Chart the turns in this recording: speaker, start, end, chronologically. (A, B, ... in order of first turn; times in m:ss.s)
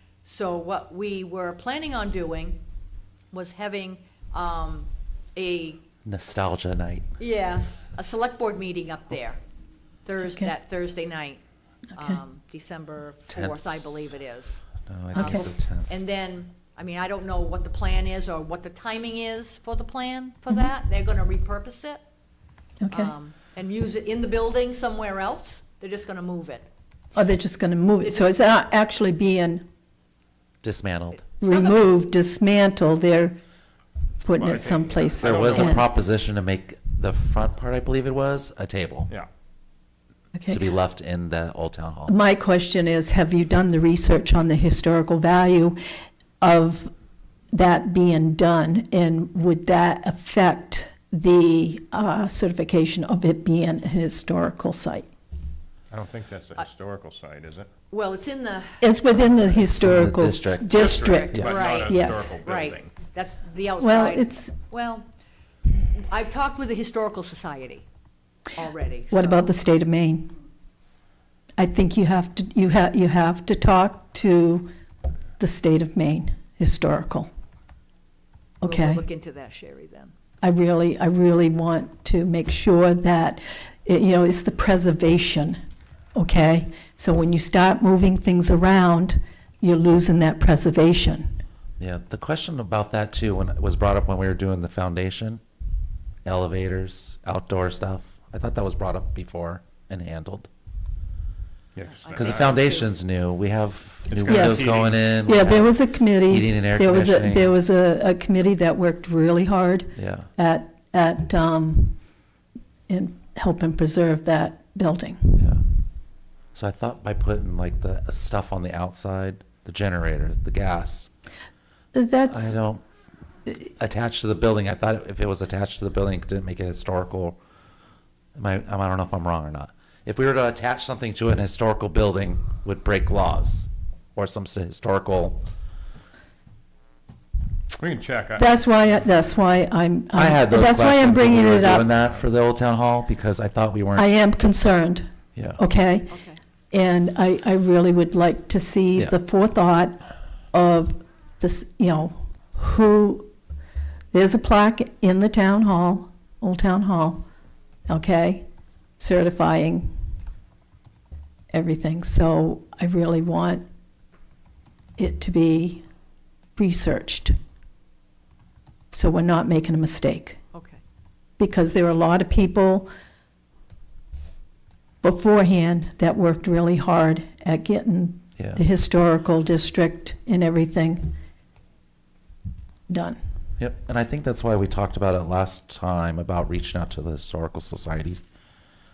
0:00.2-0:02.6 A
0:03.3-0:05.8 A
0:06.0-0:07.0 B
0:07.2-0:09.4 A
0:10.0-0:11.4 A
0:11.9-0:22.0 A
0:13.3-0:13.6 B
0:14.9-0:15.9 B
0:15.2-0:15.4 C
0:22.8-0:23.1 C
0:22.9-0:26.7 A
0:27.2-0:29.6 C
0:28.0-0:28.5 A
0:30.6-0:31.2 B
0:31.1-0:31.9 A
0:31.4-0:33.4 C
0:34.2-0:35.8 C
0:34.4-0:35.8 D
0:35.2-0:39.1 B
0:40.3-0:40.6 C
0:40.5-0:42.2 B
0:42.1-0:45.8 C
0:46.4-0:46.9 C
0:47.5-0:55.1 C
0:55.9-0:57.7 D
0:57.9-0:59.6 A
0:58.8-1:02.4 C
0:59.7-1:00.8 B
1:00.7-1:02.9 D
1:00.7-1:05.1 A
1:03.8-1:04.5 C
1:06.0-1:07.9 A
1:08.5-1:09.4 A
1:09.1-1:10.3 C
1:11.6-1:14.7 C
1:15.4-1:17.3 C
1:18.6-1:19.0 C
1:18.6-1:20.1 A
1:20.4-1:25.6 C
1:26.2-1:31.3 C
1:31.8-1:35.4 B
1:36.2-1:40.5 B
1:41.8-1:42.6 D
1:41.9-1:42.9 A
1:42.2-1:47.5 B
1:44.1-1:45.1 D
1:44.2-1:52.0 C
1:50.0-1:50.3 B
1:52.9-1:55.5 C
1:55.4-1:55.6 B
1:56.6-2:01.1 B
2:01.9-2:02.6 C
2:02.3-2:02.8 B
2:03.6-2:07.4 B
2:08.4-2:15.4 B
2:17.8-2:18.5 D
2:18.4-2:21.9 C
2:20.1-2:24.1 B
2:24.0-2:25.0 C
2:25.6-2:26.1 C
2:26.1-2:26.4 A
2:26.7-2:30.0 C
2:30.5-2:33.3 C
2:34.1-2:37.2 C
2:37.9-2:38.4 C
2:39.0-2:39.9 C
2:41.5-2:43.6 C
2:45.0-2:45.8 C
2:46.6-2:47.3 C
2:48.9-2:50.4 C
2:50.5-2:50.8 A
2:51.4-2:52.9 C
2:55.0-3:01.2 C
3:02.9-3:03.2 C
3:03.6-3:08.2 B